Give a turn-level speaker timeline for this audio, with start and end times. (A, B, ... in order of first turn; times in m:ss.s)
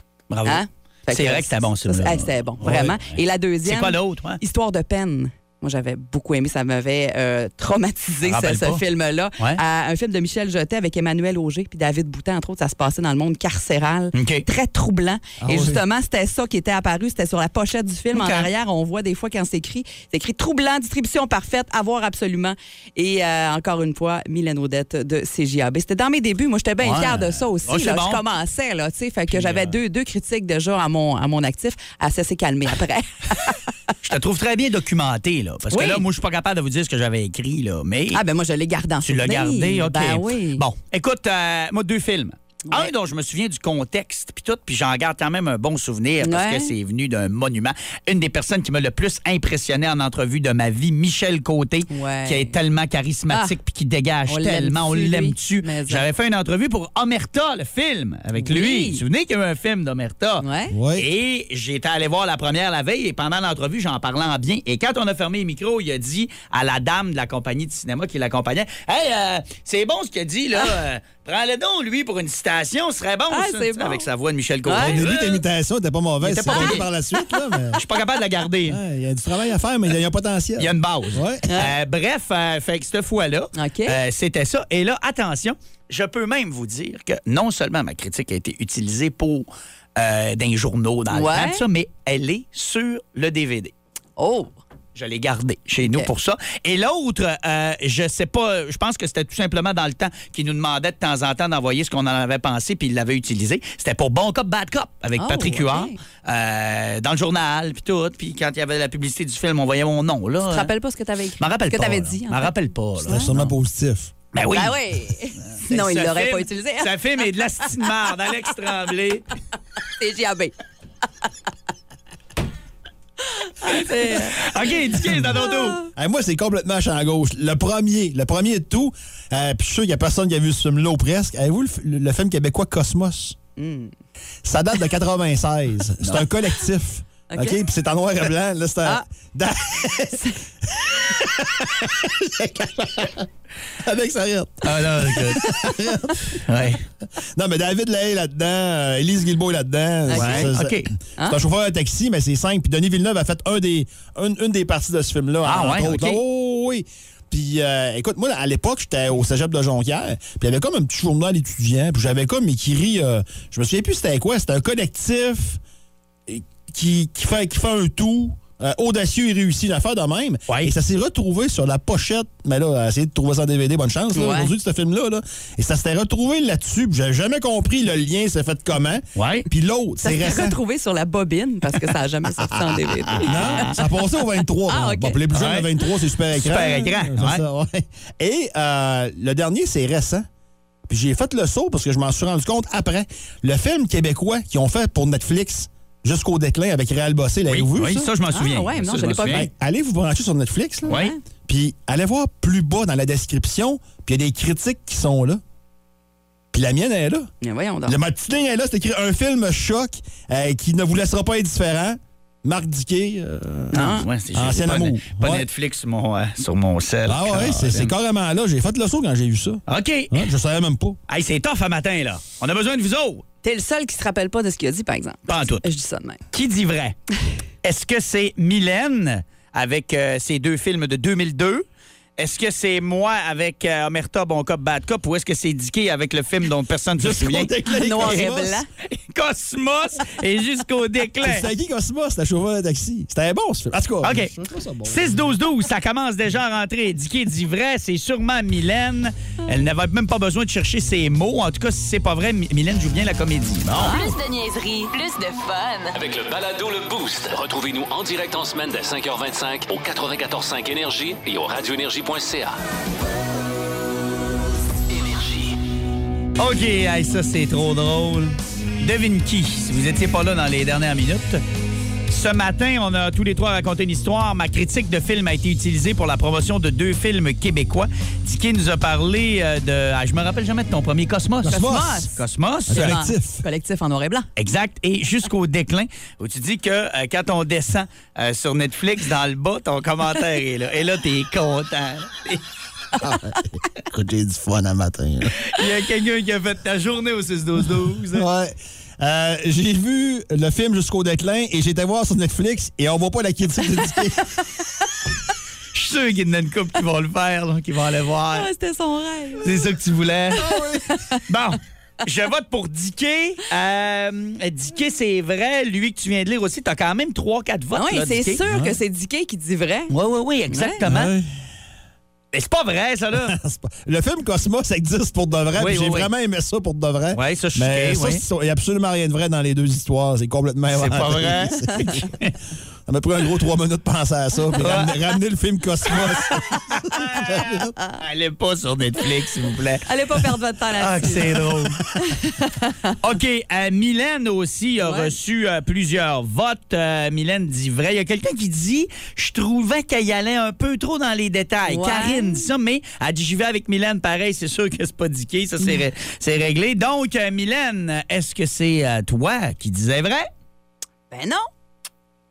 0:00.3-0:04.4 A
0:00.4-0:33.6 B
0:08.2-0:08.8 A
0:14.1-0:14.4 A
0:15.4-0:15.8 C
0:18.1-0:18.5 A
0:26.8-0:28.2 A
0:29.3-0:29.8 A
0:34.0-0:38.2 A
0:35.7-0:36.0 B
0:38.1-0:40.6 B
0:39.0-1:00.4 A
0:46.2-0:46.7 B
0:51.9-0:52.6 B
0:53.3-0:53.6 B
0:54.3-0:56.0 B
0:58.4-0:59.0 B
1:00.4-1:00.8 B
1:00.7-1:01.1 C
1:01.0-1:15.4 A
1:13.3-1:14.1 B
1:14.6-1:15.0 B
1:14.8-1:17.8 C
1:16.2-1:16.9 A
1:16.5-1:17.4 B
1:17.8-1:18.8 A
1:18.7-1:21.5 C
1:20.6-1:33.7 A
1:21.5-1:21.7 B
1:23.6-1:24.0 B
1:31.1-1:31.6 B
1:34.2-1:34.5 B
1:35.0-1:50.7 A
1:35.8-1:36.1 B
1:45.2-1:46.0 B
1:50.4-1:52.5 B
1:51.4-1:53.5 A
1:53.0-1:54.1 C
1:53.1-1:53.4 B
1:54.3-1:54.8 A
1:54.5-1:56.9 B
1:55.4-1:59.2 A
1:59.9-2:00.5 B
2:03.4-2:04.6 B
2:03.8-2:05.8 A
2:05.2-2:05.9 B
2:06.0-2:13.4 C
2:13.6-2:13.9 B
2:14.4-2:23.3 C
2:16.0-2:16.3 A
2:17.3-2:17.6 B
2:23.8-2:45.6 C
2:24.6-2:25.6 A
2:26.4-2:26.8 A
2:30.1-2:30.5 B
2:30.1-2:30.9 A
2:35.4-2:36.2 A
2:46.3-3:00.6 C
2:54.1-2:54.5 B
2:59.2-2:59.5 A
3:00.0-3:03.8 B
3:03.1-3:10.3 C
3:03.3-3:03.7 A
3:04.7-3:05.2 B
3:05.3-3:05.7 A
3:06.3-3:07.4 A
3:10.9-3:18.1 C
3:17.5-3:19.5 A
3:18.3-3:19.5 B
3:19.3-3:25.4 C
3:20.9-3:21.2 B
3:20.9-3:21.1 A
3:26.5-3:27.3 C
3:27.4-3:28.0 B
3:27.9-3:35.4 C
3:33.7-3:34.1 B
3:33.7-3:37.9 A
3:37.1-3:41.0 C
3:39.7-3:40.3 A
3:41.1-3:43.2 A
3:43.4-3:46.2 B
3:45.3-3:45.6 A
3:46.3-3:47.0 A
3:47.6-3:51.6 A
3:52.2-3:58.3 A
3:57.0-3:58.6 C
3:57.7-3:58.7 B
3:58.9-4:01.5 A
4:01.2-4:05.3 C
4:04.0-4:04.3 A
4:04.9-4:14.0 A
4:13.8-4:14.1 B
4:13.8-4:16.0 D
4:15.9-4:22.6 E
4:24.9-4:25.6 E
4:26.4-4:31.4 A
4:32.1-4:43.0 A
4:41.4-4:42.1 C
4:41.5-4:42.2 B
4:42.7-4:43.4 C
4:42.7-4:44.3 B
4:44.4-4:52.4 A
4:53.0-4:55.4 C
4:55.4-4:58.3 A
4:58.1-5:04.3 C
5:05.7-5:08.5 A
5:08.3-5:09.6 B
5:09.4-5:10.5 A
5:10.4-5:10.8 C
5:10.5-5:11.2 B
5:11.3-5:18.4 A
5:17.7-5:19.9 B
5:18.5-5:18.8 C
5:19.9-5:21.1 A
5:20.5-5:20.8 B
5:20.8-5:21.3 C
5:22.3-5:23.4 A
5:23.1-5:32.1 C
5:25.6-5:26.1 A
5:27.1-5:28.2 A
5:30.7-5:32.3 A
5:32.9-5:37.8 C
5:34.6-5:35.0 A
5:37.0-5:39.9 A
5:39.9-5:43.0 B
5:40.8-5:41.8 A
5:43.0-6:00.3 A
5:44.8-5:45.1 B
5:51.7-5:52.4 B
6:01.1-6:01.5 B